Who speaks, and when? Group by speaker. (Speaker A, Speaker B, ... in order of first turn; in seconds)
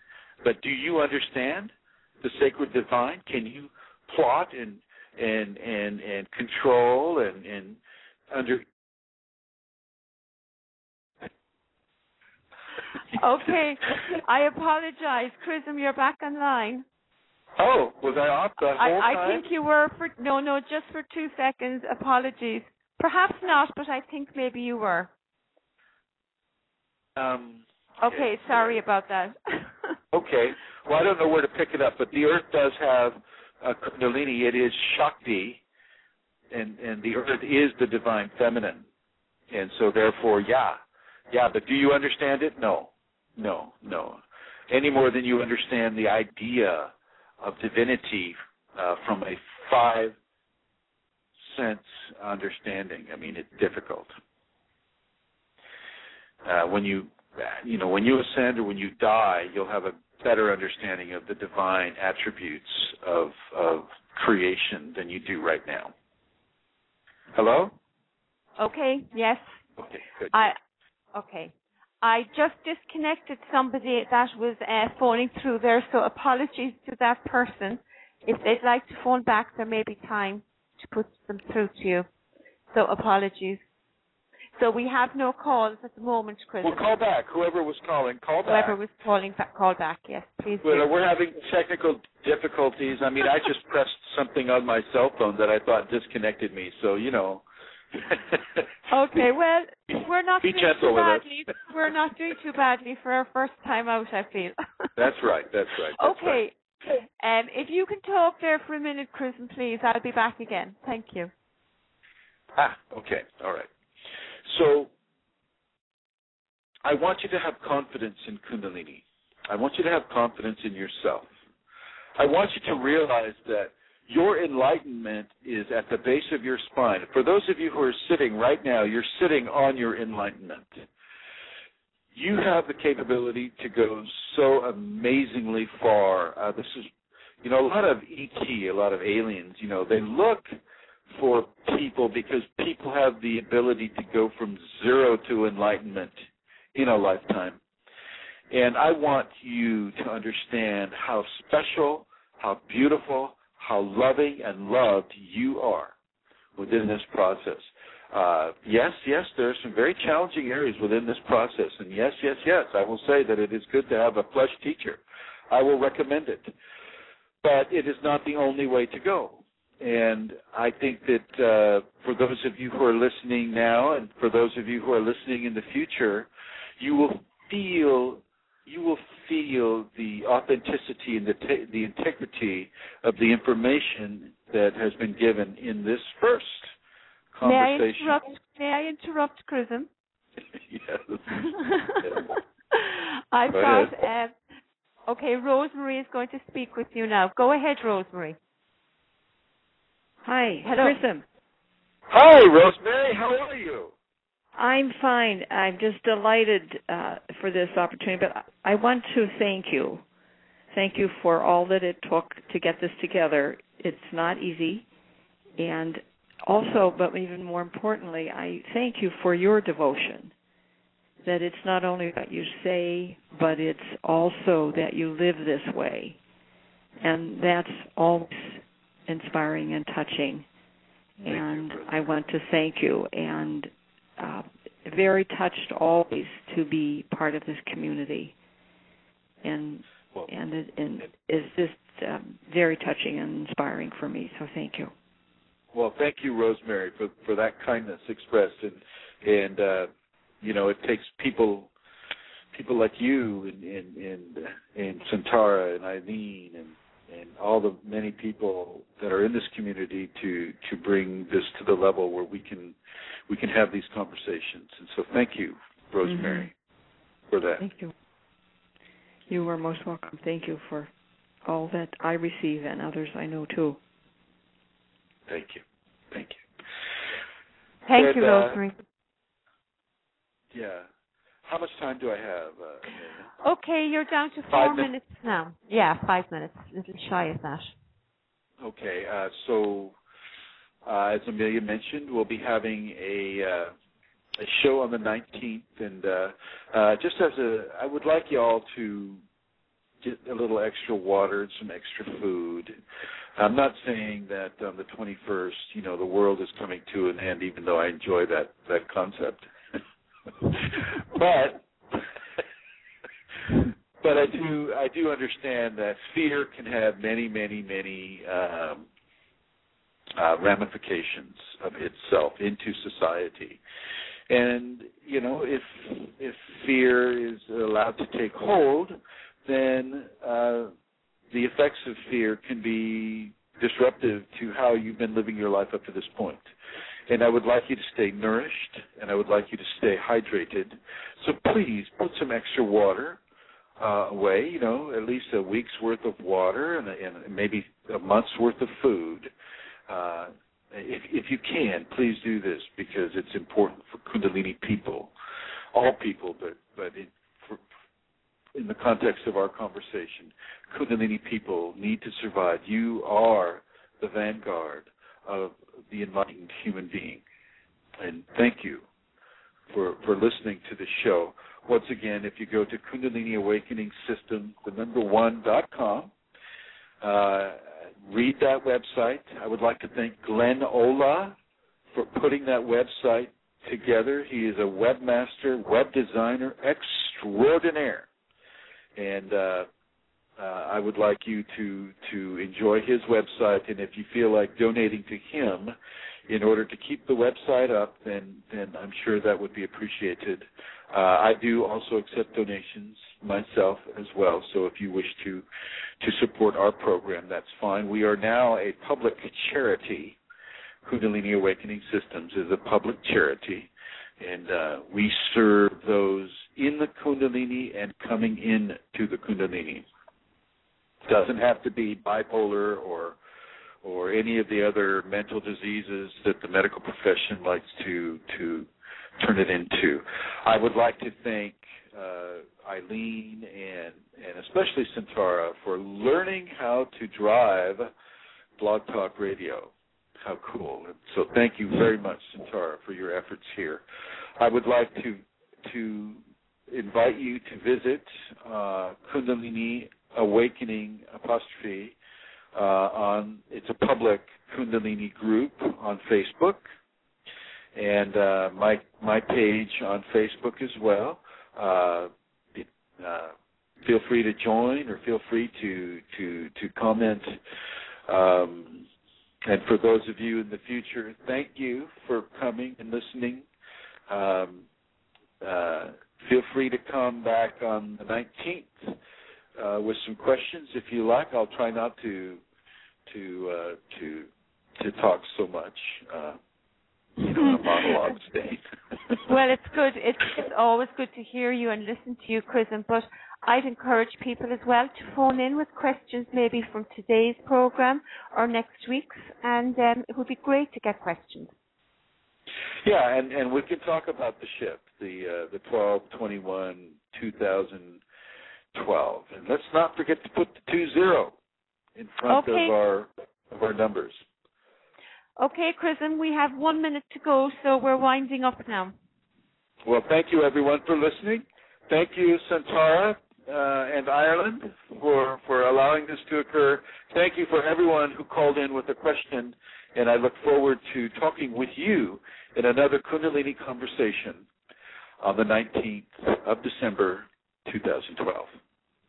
Speaker A: 0.4-7.8, 8.3-8.7, 17.6-19.4, 27.2-28.8, 30.1-35.6, 36.5-38.9, 39.5-40.8, 41.3-50.2, 51.4-54.1, 56.5-65.9, 67.3-67.7, 69.8-70.5, 86.6-88.8, 90.6-98.7, 100.0-101.2, 105.0-106.4, 112.6-113.7, 114.5-114.9, 116.8-121.3, 122.2-130.9, 132.1-136.9, 137.4-140.5, 141.1-146.2, 146.8-147.6, 148.5-155.9, 156.6-166.5, 167.4-176.3, 176.8-186.7, 187.3-188.2, 190.6-191.3, 193.5-193.9, 202.1-203.9, 231.3-231.9, 245.7-249.9, 250.4-251.7, 252.5-262.8, 263.3-266.5, 267.3-267.6, 275.3-276.4, 277.9-278.6, 280.5-280.9, 281.4-283.3, 284.5-284.9, 288.6-290.0, 290.9-293.7, 294.4-299.2, 300.0-302.8, 303.4-309.5, 310.5-312.4, 313.5-318.9, 320.2-323.6, 324.3-330.7, 331.3-336.5, 337.1-343.2, 343.8-349.3, 349.9-355.1, 355.7-357.6, 358.6-367.2, 368.0-368.9, 369.7-376.1, 377.0-381.4, 381.9-388.1, 389.0-389.7, 390.4-395.8, 396.3-405.4, 406.0-410.2, 410.8-419.9, 421.1-423.2, 423.8-437.9, 438.6-443.8, 444.4-451.9, 452.6-456.6, 457.8-467.4, 468.1-468.9, 469.5-473.5, 474.1-474.6, 475.4-479.0, 479.6-482.4, 483.1-486.4, 487.2-489.2, 502.8-508.0, 508.7-511.4, 512.0-514.2, 519.9-534.5, 535.2-538.5
Speaker B: 13.2-16.9, 18.8-25.1, 28.0-29.7, 68.6-69.5, 71.2-82.1, 82.7-83.6, 84.6-86.8, 88.5-90.9, 98.9-104.9, 106.0-106.5, 107.2-111.3, 187.4-189.9, 191.4-194.3, 195.1-198.4, 200.6-201.0, 277.9-278.8, 283.4-287.7, 489.3-501.5, 512.3-512.7, 515.4-519.0
Speaker C: 200.2-201.2, 204.6-210.0, 210.7-214.8, 215.6-220.3, 221.2-226.2, 227.0-230.5, 231.2-238.3, 239.4-244.9, 266.1-266.5, 267.6-267.9, 269.3-270.9, 271.4-273.8